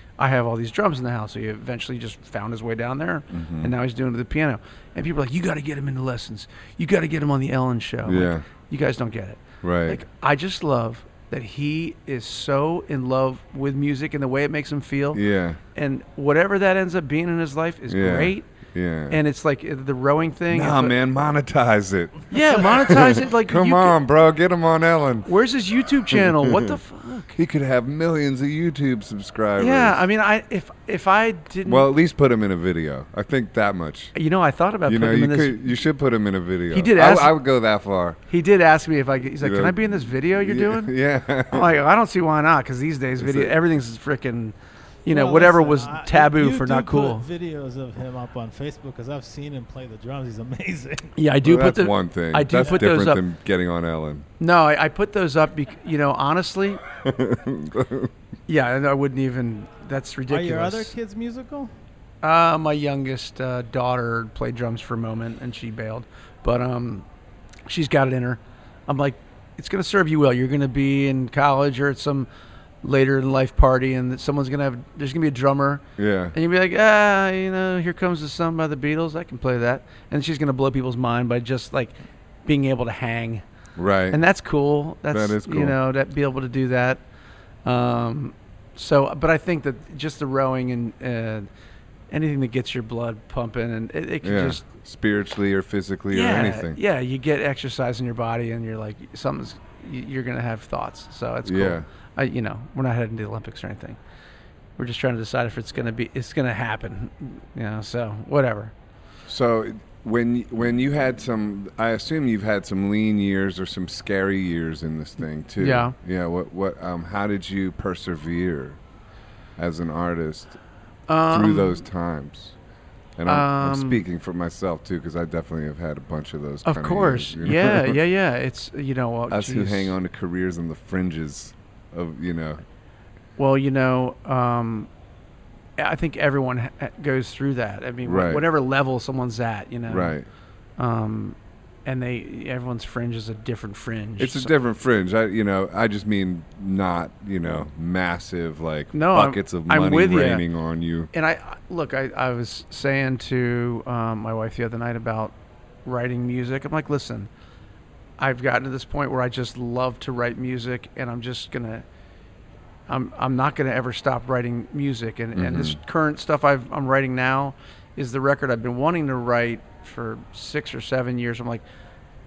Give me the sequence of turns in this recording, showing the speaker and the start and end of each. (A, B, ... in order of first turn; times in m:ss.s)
0:00.2-0:15.2 A
0:03.3-0:03.7 B
0:08.0-0:08.4 B
0:09.6-0:10.0 B
0:15.1-0:15.6 B
0:15.8-0:18.5 A
0:17.9-0:19.2 B
0:19.1-0:21.0 A
0:20.5-0:25.3 B
0:22.3-0:24.0 A
0:25.3-0:27.4 A
0:26.1-0:26.7 B
0:27.4-0:30.0 B
0:29.6-0:31.9 A
0:31.7-0:34.1 B
0:34.2-0:35.7 A
0:34.9-0:38.2 B
0:36.7-0:37.4 A
0:38.3-0:41.0 A
0:39.4-0:41.7 B
0:41.5-0:47.3 A
0:43.2-0:43.5 B
0:45.1-0:51.2 C
0:51.2-0:53.2 A
0:51.4-0:54.3 B
0:54.4-0:56.8 A
0:57.0-0:58.1 B
0:58.5-1:00.9 A
1:00.3-1:01.7 C
1:02.2-1:07.0 A
1:07.7-1:12.3 A
1:12.8-1:21.9 A
1:16.0-1:16.4 B
1:22.5-1:23.4 A
1:23.8-1:24.2 B
1:24.1-1:27.0 A
1:25.1-1:25.8 B
1:27.6-1:31.5 A
1:32.1-1:34.6 A
1:34.2-1:36.8 B
1:36.1-1:44.0 A
1:41.4-1:41.9 B
1:44.8-1:48.7 A
1:49.3-1:58.8 B
1:55.6-1:56.0 A
1:59.6-2:00.6 B
2:01.1-2:01.8 A
2:01.3-2:02.5 B
2:03.2-2:08.0 B
2:03.3-2:04.0 A
2:06.6-2:09.9 A
2:09.3-2:12.6 B
2:13.4-2:14.9 A
2:15.8-2:20.2 A
2:18.0-2:18.5 B
2:19.9-2:20.3 B
2:20.8-2:24.5 A
2:24.2-2:31.1 B
2:28.9-2:30.4 A
2:31.1-2:35.3 A
2:35.8-2:37.3 A
2:38.2-2:41.8 A
2:42.9-2:51.6 A
2:45.4-2:45.8 B